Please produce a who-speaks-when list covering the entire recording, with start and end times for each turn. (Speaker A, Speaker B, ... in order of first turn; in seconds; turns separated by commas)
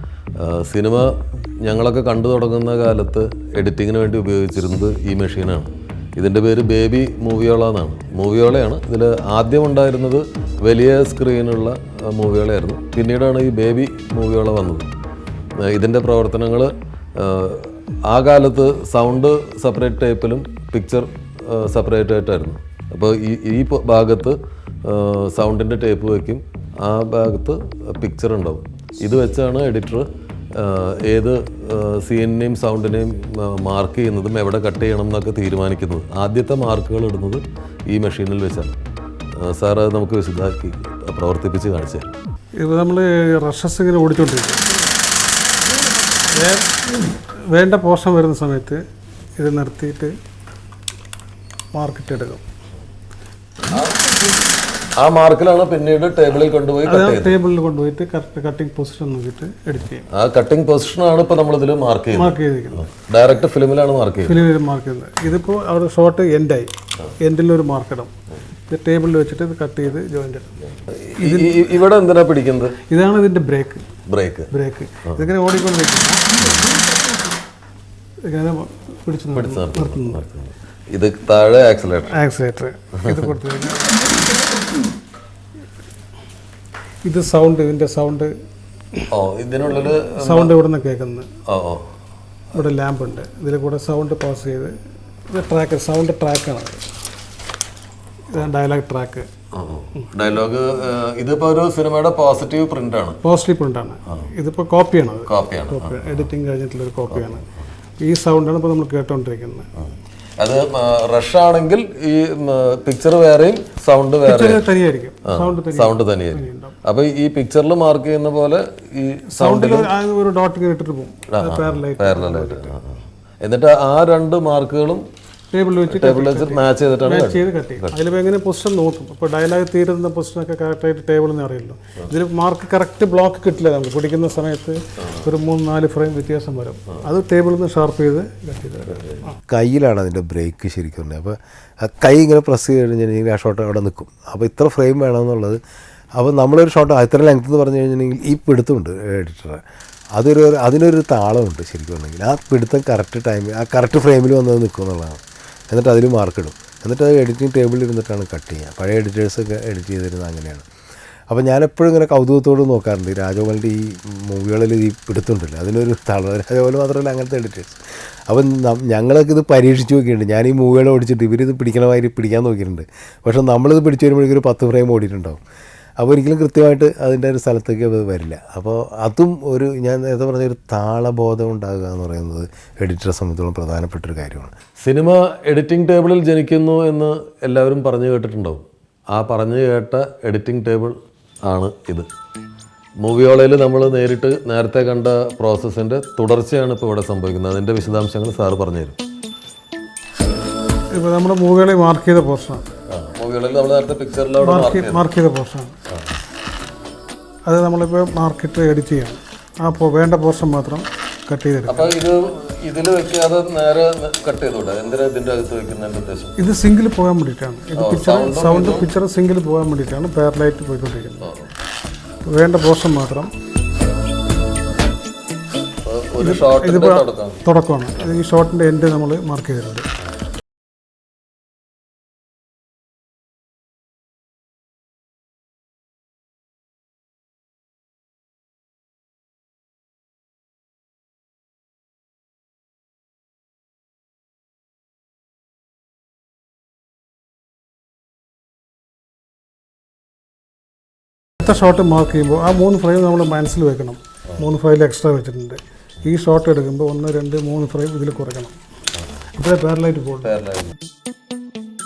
Speaker A: 0.4-14.9, Speaker A: 15.6-38.8, Speaker A: 39.4-42.1, Speaker B: 42.6-44.6, Speaker B: 46.3-48.8, Speaker B: 49.4-50.1, Speaker B: 51.7-52.4, Speaker A: 53.7-54.4, Speaker A: 55.0-57.4, Speaker B: 56.9-60.1, Speaker A: 60.1-64.4, Speaker B: 62.1-62.9, Speaker B: 64.2-66.7, Speaker B: 67.2-68.1, Speaker B: 68.7-70.5, Speaker A: 70.7-72.8, Speaker B: 71.2-71.5, Speaker B: 72.9-73.8, Speaker A: 74.1-74.5, Speaker B: 74.5-76.2, Speaker A: 76.5-76.7, Speaker B: 78.2-80.2, Speaker A: 79.3-82.2, Speaker B: 82.1-84.2, Speaker B: 87.0-88.3, Speaker A: 89.1-90.5, Speaker B: 90.2-91.3, Speaker A: 91.5-91.9, Speaker B: 92.5-94.7, Speaker B: 95.3-96.8, Speaker B: 98.3-99.3, Speaker A: 99.5-103.2, Speaker B: 103.2-107.4, Speaker A: 105.3-106.3, Speaker A: 107.1-107.4, Speaker B: 108.0-109.7, Speaker A: 110.4-114.6, Speaker B: 114.2-116.7, Speaker A: 115.3-119.9, Speaker B: 119.3-122.7, Speaker A: 121.3-122.9, Speaker A: 123.4-125.0, Speaker B: 125.5-139.4, Speaker A: 125.9-128.0, Speaker C: 139.5-145.6, Speaker C: 146.2-149.6, Speaker C: 150.1-160.7, Speaker C: 161.3-175.4, Speaker C: 176.0-184.5, Speaker A: 184.8-192.1, Speaker A: 193.0-199.0, Speaker B: 200.9-202.6, Speaker A: 202.9-205.0, Speaker B: 204.4-205.7, Speaker B: 207.5-211.9, Speaker A: 211.7-216.4, Speaker B: 216.4-221.3, Speaker A: 217.8-218.9, Speaker A: 221.2-221.5, Speaker B: 222.2-223.3, Speaker A: 225.8-227.4, Speaker B: 226.2-229.9, Speaker B: 251.4-258.6, Speaker B: 259.3-260.3, Speaker A: 260.2-260.7